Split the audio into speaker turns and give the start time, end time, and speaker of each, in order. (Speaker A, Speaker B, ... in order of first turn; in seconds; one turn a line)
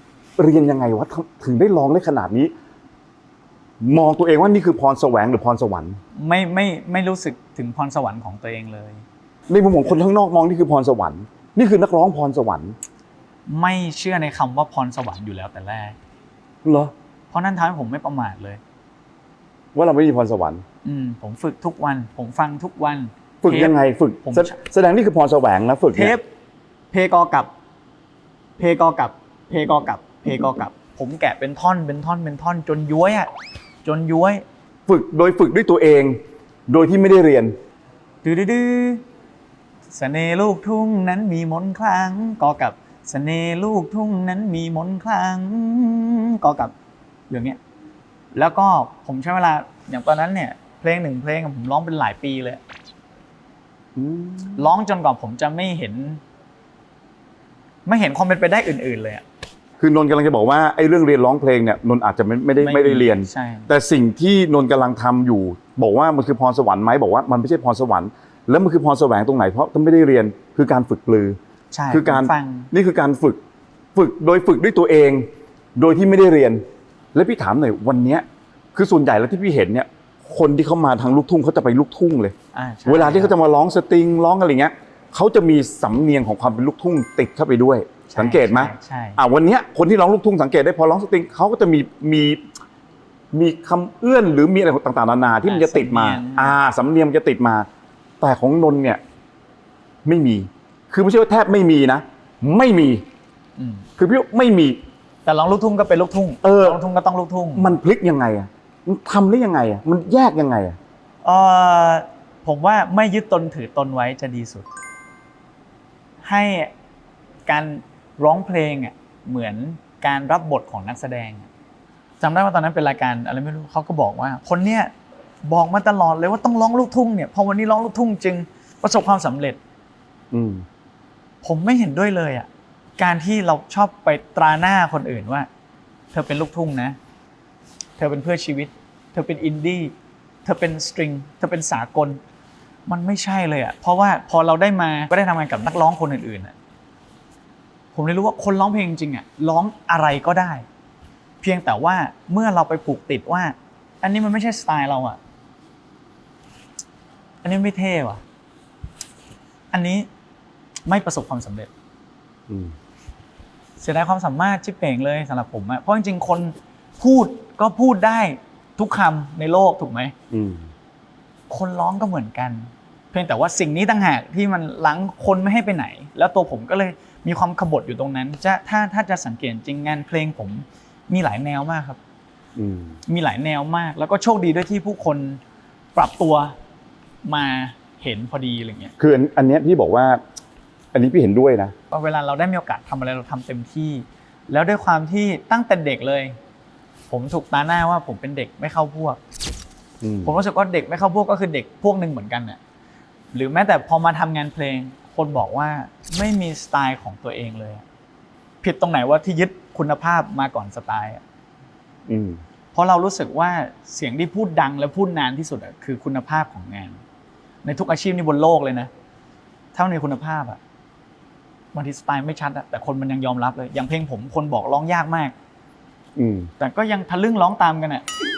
Speaker A: 0.4-2.5
Speaker A: 3.8-6.0
Speaker B: 6.1-9.0
Speaker A: 9.5-12.8
Speaker B: 13.5-15.9
Speaker A: 16.6-16.9
Speaker B: 17.3-18.6
Speaker A: 19.7-20.6
Speaker B: 20.8-24.5
Speaker A: 23.4-26.1
Speaker B: 25.9-26.2
Speaker B: 26.9-27.5
Speaker B: 28.6-33.3
Speaker B: 33.8-34.4
Speaker A: 34.9-36.2
Speaker A: 36.7-37.5
Speaker B: 38.2-39.0
Speaker B: 39.9-46.7
Speaker B: 47.3-47.6
Speaker B: 48.3-52.6
Speaker A: 54.0-54.7
Speaker B: 54.5-56.2
Speaker B: 57.9-59.2
Speaker A: 59.8-71.4
Speaker B: 62.6-63.7
Speaker B: 71.7-72.7
Speaker A: 71.9-73.4
Speaker A: 73.9-75.2
Speaker A: 75.8-76.6
Speaker A: 77.1-82.3
Speaker B: 82.5-83.3
Speaker A: 82.8-92.4
Speaker B: 88.1-89.2
Speaker A: 93.3-97.7
Speaker B: 95.4-96.6
Speaker A: 98.2-99.0
Speaker A: 100.0-103.0
Speaker B: 103.6-103.9
Speaker A: 104.0-104.8
Speaker B: 105.2-107.8
Speaker A: 106.4-106.8
Speaker A: 107.5-110.8
Speaker B: 111.2-114.7
Speaker B: 116.2-116.7
Speaker B: 117.5-121.5
Speaker B: 122.2-124.9
Speaker B: 125.4-129.6
Speaker A: 130.3-130.6
Speaker B: 131.4-135.5
Speaker B: 136.1-137.0
Speaker B: 138.0-139.9
Speaker B: 140.4-142.2
Speaker B: 142.9-146.5
Speaker B: 147.9-150.7
Speaker B: 151.4-155.2
Speaker B: 157.4-158.2
Speaker B: 159.7-160.1
Speaker B: 160.8-161.7
Speaker A: 162.5-162.7
Speaker B: 163.8-170.1
Speaker A: 170.3-170.7
Speaker B: 171.5-182.0
Speaker A: 182.6-183.0
Speaker B: 183.1-185.4
Speaker B: 185.9-186.6
Speaker B: 187.2-188.9
Speaker A: 189.0-190.2
Speaker A: 190.9-191.7
Speaker B: 191.9-196.4
Speaker B: 197.1-199.2
Speaker A: 200.0-200.3
Speaker B: 200.2-202.6
Speaker B: 203.3-207.8
Speaker B: 208.6-211.2
Speaker A: 212.1-212.4
Speaker B: 212.7-217.0
Speaker B: 217.6-218.9
Speaker B: 219.7-220.6
Speaker B: 221.7-225.3
Speaker A: 226.2-226.5
Speaker B: 226.6-228.0